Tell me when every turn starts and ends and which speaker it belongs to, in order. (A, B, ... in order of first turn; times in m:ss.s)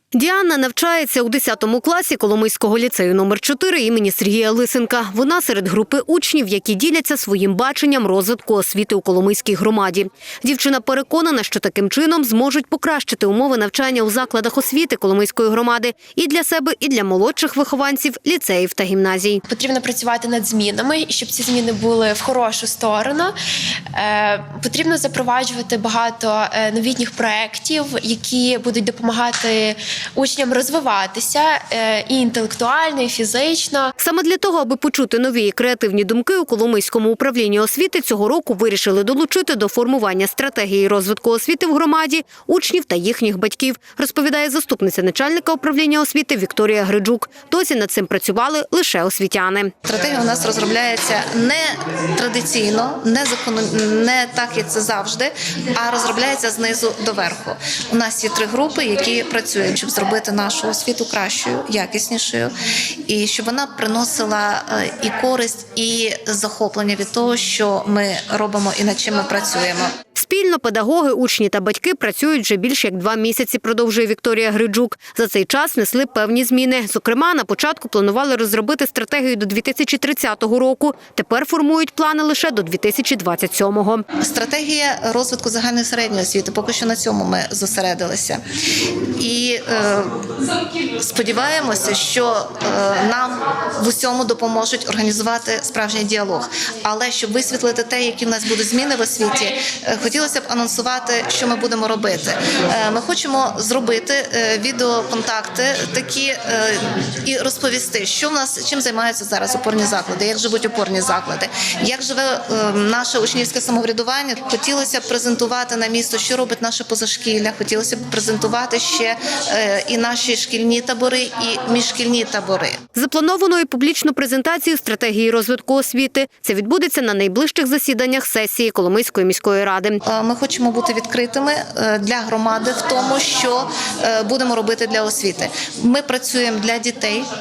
0:00.1-0:19.4 A
0:19.5-0:23.4 B
0:24.0-0:33.9 B
0:34.0-0:49.7 A
0:49.8-1:02.5 C
1:03.1-1:09.9 C
1:10.2-1:24.1 A
1:24.2-1:28.4 C
1:29.2-1:30.2 C
1:31.0-2:02.8 C
2:03.0-2:10.0 A
2:10.0-2:17.3 C